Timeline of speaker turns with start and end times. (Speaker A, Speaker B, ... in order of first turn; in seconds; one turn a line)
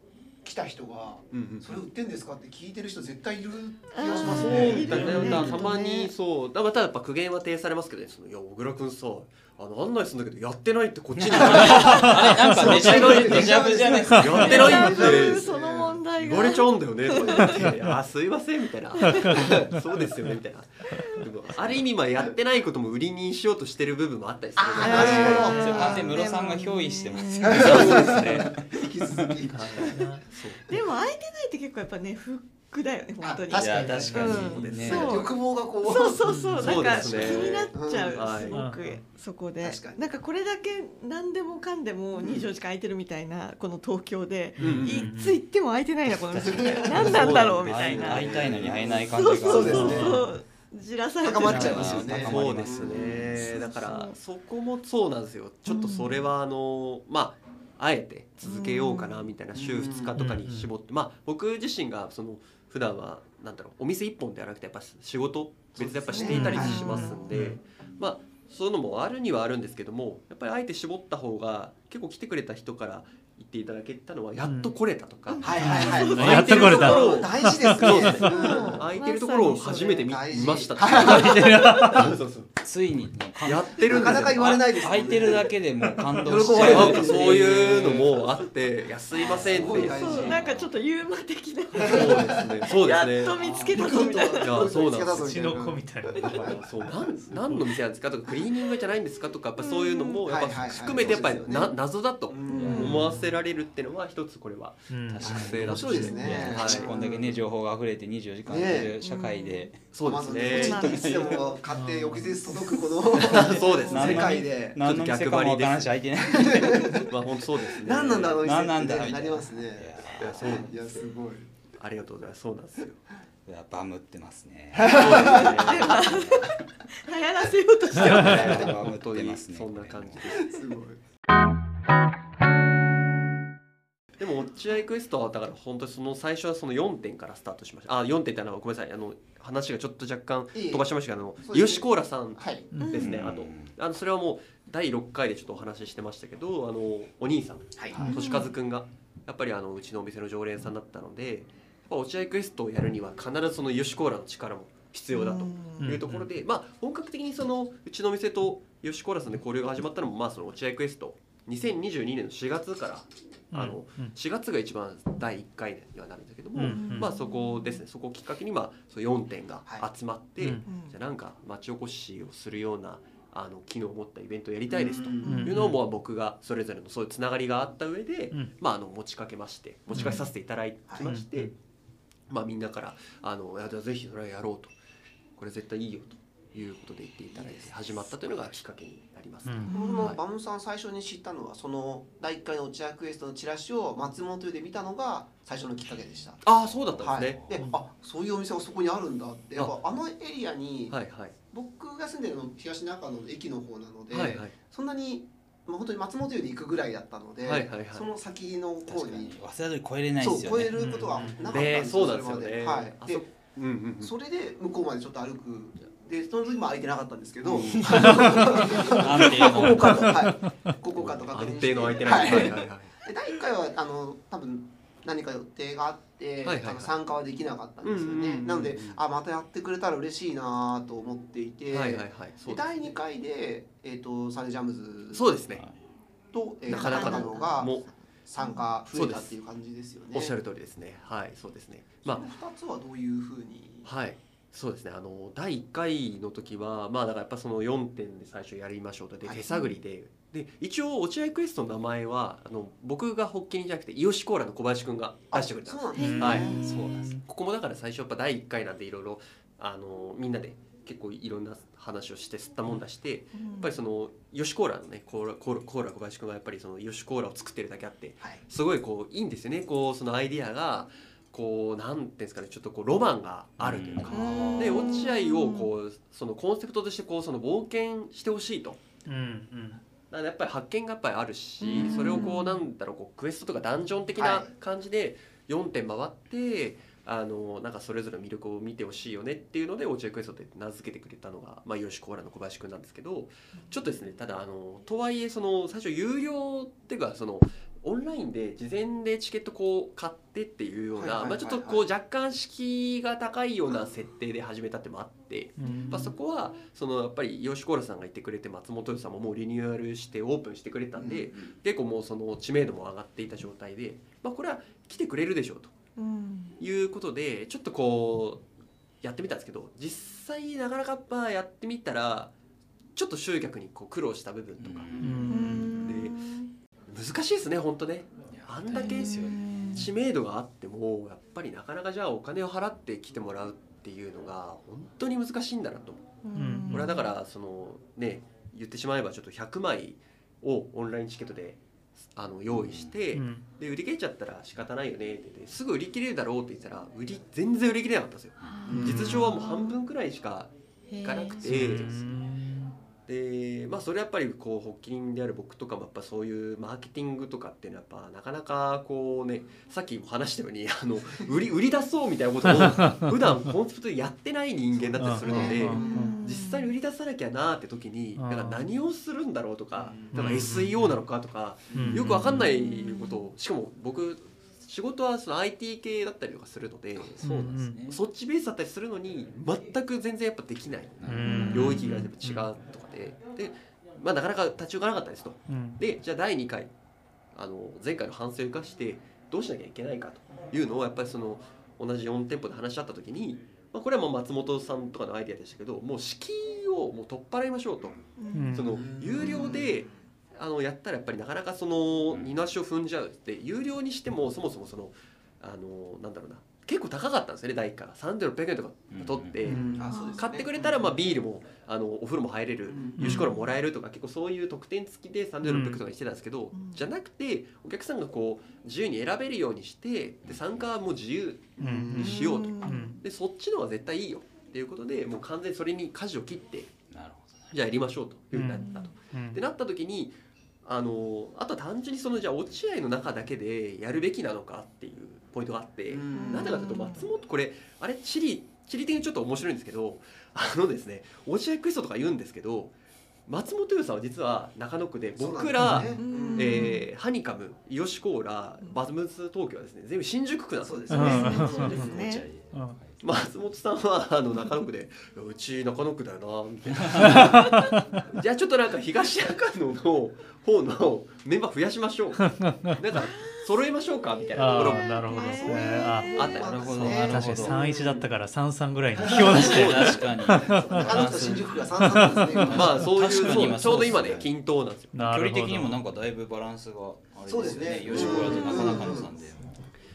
Speaker A: 0.4-5.7
Speaker B: 1.3-1.8
Speaker C: 3.9-6.1
Speaker B: 4.1-13.7
Speaker D: 11.2-14.9
Speaker A: 11.4-16.0
Speaker C: 11.6-12.2
Speaker B: 14.2-15.5
Speaker C: 14.3-17.7
Speaker B: 16.1-25.8
Speaker E: 17.5-17.9
Speaker C: 19.0-19.6
Speaker E: 19.1-19.8
Speaker A: 24.6-26.2
Speaker C: 24.8-28.2
Speaker D: 24.9-28.6
Speaker A: 27.4-30.0
Speaker B: 27.5-28.5
Speaker B: 29.5-30.6
Speaker E: 29.8-30.2
Speaker C: 29.8-48.5
Speaker A: 33.2-38.4
Speaker D: 33.5-35.3
Speaker E: 33.8-34.4
Speaker B: 34.3-35.2
Speaker E: 36.2-36.6
Speaker B: 36.5-38.6
Speaker D: 37.0-37.5
Speaker E: 38.5-39.0
Speaker A: 39.6-40.0
Speaker A: 42.2-42.5
Speaker E: 44.6-45.4
Speaker B: 44.6-45.1
Speaker A: 46.3-50.2
Speaker D: 46.3-50.2
Speaker B: 46.8-49.1
Speaker C: 49.1-52.2
Speaker E: 49.7-50.2
Speaker A: 51.2-53.3
Speaker D: 51.4-53.7
Speaker B: 51.5-82.5
Speaker E: 51.5-51.8
Speaker C: 53.3-54.1
Speaker C: 55.6-56.2
Speaker C: 58.4-59.2
Speaker A: 59.5-60.1
Speaker E: 60.1-60.7
Speaker A: 65.8-67.3
Speaker C: 66.1-67.2
Speaker E: 66.3-67.6
Speaker E: 74.4-74.7
Speaker C: 75.3-77.4
Speaker A: 75.4-78.9
Speaker E: 75.5-78.2
Speaker C: 78.2-80.1
Speaker A: 80.0-81.4
Speaker E: 80.9-82.1
Speaker C: 81.0-82.0
Speaker D: 82.6-88.1
Speaker B: 83.4-84.4
Speaker A: 83.9-85.5
Speaker A: 86.1-88.2
Speaker B: 86.5-90.3
Speaker C: 89.1-94.8
Speaker D: 89.2-90.7
Speaker A: 89.4-90.4
Speaker A: 91.8-92.6
Speaker B: 91.8-93.4
Speaker A: 93.2-97.3
Speaker B: 94.4-95.3
Speaker E: 95.1-96.3
Speaker C: 96.1-96.5
Speaker B: 96.2-106.9
Speaker C: 99.6-100.2
Speaker A: 100.2-101.7
Speaker A: 102.3-103.1
Speaker D: 102.5-103.3
Speaker C: 102.5-103.1
Speaker E: 104.9-105.5
Speaker D: 105.1-109.8
Speaker A: 105.2-107.4
Speaker C: 105.9-106.5
Speaker A: 108.5-109.0
Speaker C: 109.0-109.7
Speaker B: 109.9-110.9
Speaker A: 110.0-114.8
Speaker C: 110.5-111.6
Speaker D: 110.6-111.5
Speaker E: 111.7-112.3
Speaker C: 112.2-114.2
Speaker B: 113.1-115.9
Speaker D: 113.9-117.1
Speaker A: 116.3-121.5
Speaker B: 116.5-118.5
Speaker D: 118.4-120.7
Speaker B: 120.2-121.0
Speaker B: 121.8-123.0
Speaker D: 123.5-126.6
Speaker A: 124.7-125.7
Speaker B: 124.9-126.1
Speaker C: 125.0-128.7
Speaker B: 127.9-130.8
Speaker D: 128.0-130.2
Speaker A: 130.3-131.0
Speaker B: 134.2-181.5
Speaker A: 140.5-140.9
Speaker A: 141.4-142.7
Speaker E: 142.7-143.1
Speaker C: 142.8-143.2
Speaker D: 143.0-143.7
Speaker A: 147.8-148.0
Speaker E: 147.9-148.3
Speaker C: 148.0-148.5
Speaker C: 155.1-155.9
Speaker E: 155.8-156.3
Speaker E: 163.5-164.1
Speaker E: 166.5-167.1
Speaker C: 166.6-167.8
Speaker E: 170.4-170.6
Speaker C: 170.6-170.9
Speaker A: 174.7-175.6
Speaker C: 175.2-175.5
Speaker E: 175.2-175.8
Speaker C: 179.9-180.3
Speaker E: 179.9-180.2
Speaker A: 180.9-181.1
Speaker E: 181.0-181.5
Speaker B: 182.3-184.7
Speaker B: 185.4-190.2
Speaker A: 187.3-187.7
Speaker E: 189.4-189.7
Speaker C: 189.7-190.1
Speaker A: 189.7-196.4
Speaker B: 196.4-197.4
Speaker D: 196.5-197.6
Speaker A: 197.0-200.9
Speaker B: 200.9-201.3
Speaker A: 201.5-209.3
Speaker B: 204.1-204.6
Speaker B: 207.4-208.1
Speaker D: 208.8-211.9
Speaker A: 210.2-213.2
Speaker E: 210.8-211.4
Speaker B: 211.5-214.1
Speaker A: 214.0-235.3
Speaker B: 217.4-219.0
Speaker E: 218.0-218.4
Speaker D: 218.0-220.2
Speaker E: 219.5-220.7
Speaker B: 221.0-223.0
Speaker B: 226.4-226.9
Speaker B: 227.8-228.9
Speaker B: 231.7-232.9
Speaker B: 235.1-235.6
Speaker A: 236.3-240.3
Speaker C: 236.7-238.7
Speaker B: 236.7-237.9
Speaker B: 238.9-239.3
Speaker B: 240.1-242.2
Speaker A: 242.0-243.9
Speaker B: 243.8-256.6
Speaker A: 255.3-256.7
Speaker C: 255.9-256.7
Speaker E: 256.0-257.2
Speaker D: 256.4-257.2
Speaker B: 257.2-278.8
Speaker C: 263.3-263.7
Speaker D: 273.6-274.3
Speaker C: 274.1-275.7
Speaker A: 274.1-274.9
Speaker E: 279.1-279.8
Speaker B: 280.1-315.7
Speaker C: 281.6-282.6
Speaker A: 281.7-282.4
Speaker A: 284.1-284.5
Speaker A: 300.9-301.9
Speaker E: 305.6-306.1
Speaker A: 311.0-311.5
Speaker C: 316.0-316.6
Speaker B: 316.6-318.4
Speaker B: 319.0-322.3
Speaker B: 322.9-326.2
Speaker D: 324.6-326.1
Speaker E: 325.0-325.7
Speaker C: 325.3-326.5
Speaker B: 326.9-336.0
Speaker D: 328.3-329.9
Speaker C: 328.7-329.9
Speaker C: 336.2-337.1
Speaker E: 336.3-337.0
Speaker B: 336.7-341.6
Speaker B: 342.1-350.5
Speaker D: 342.5-342.9
Speaker E: 343.1-343.4
Speaker C: 348.4-349.8
Speaker A: 348.6-349.3
Speaker C: 350.9-351.4
Speaker B: 351.0-352.1
Speaker E: 351.4-352.7
Speaker B: 353.1-386.7
Speaker E: 362.4-363.5
Speaker E: 365.0-366.1
Speaker A: 365.0-366.2
Speaker C: 365.3-366.7
Speaker E: 368.1-368.6
Speaker E: 370.1-371.0
Speaker A: 371.7-372.1
Speaker E: 371.7-372.5
Speaker C: 372.3-373.2
Speaker D: 377.0-378.0
Speaker E: 377.2-377.8
Speaker D: 381.0-381.8
Speaker E: 381.0-382.5
Speaker C: 381.2-382.1
Speaker E: 385.5-385.8
Speaker B: 387.3-398.0
Speaker C: 398.2-398.5
Speaker E: 398.3-398.8
Speaker B: 398.5-426.8
Speaker A: 398.7-399.9
Speaker C: 399.2-399.6
Speaker D: 402.1-402.4
Speaker D: 408.9-409.4
Speaker A: 409.4-410.9
Speaker E: 409.4-409.9
Speaker C: 409.9-410.3
Speaker A: 412.7-413.2
Speaker E: 413.0-413.3
Speaker C: 413.1-413.4
Speaker E: 415.4-415.8
Speaker C: 416.5-416.9
Speaker E: 421.6-423.0
Speaker A: 421.6-422.3
Speaker C: 421.9-423.0
Speaker D: 426.9-427.5
Speaker B: 427.5-442.7
Speaker E: 428.3-429.4
Speaker C: 428.6-428.9
Speaker A: 435.9-436.8
Speaker C: 436.1-437.1
Speaker B: 443.3-451.8
Speaker A: 445.2-446.7
Speaker E: 445.6-445.9
Speaker C: 446.0-446.9
Speaker A: 450.6-452.1
Speaker E: 450.9-451.9
Speaker C: 451.0-452.3
Speaker D: 451.2-453.0
Speaker E: 452.5-452.8
Speaker B: 453.0-467.2
Speaker D: 456.7-457.2
Speaker E: 456.9-458.0
Speaker E: 462.2-462.8
Speaker C: 462.9-463.4
Speaker E: 464.4-471.2
Speaker C: 464.4-466.7
Speaker A: 465.3-467.7
Speaker D: 466.4-467.7
Speaker A: 468.9-469.5
Speaker B: 469.3-470.1
Speaker D: 469.3-474.3
Speaker A: 470.5-473.6
Speaker E: 471.8-472.6
Speaker B: 472.5-474.9
Speaker E: 474.9-475.8
Speaker D: 474.9-479.7
Speaker A: 477.3-479.1
Speaker B: 477.9-478.2
Speaker C: 478.2-478.9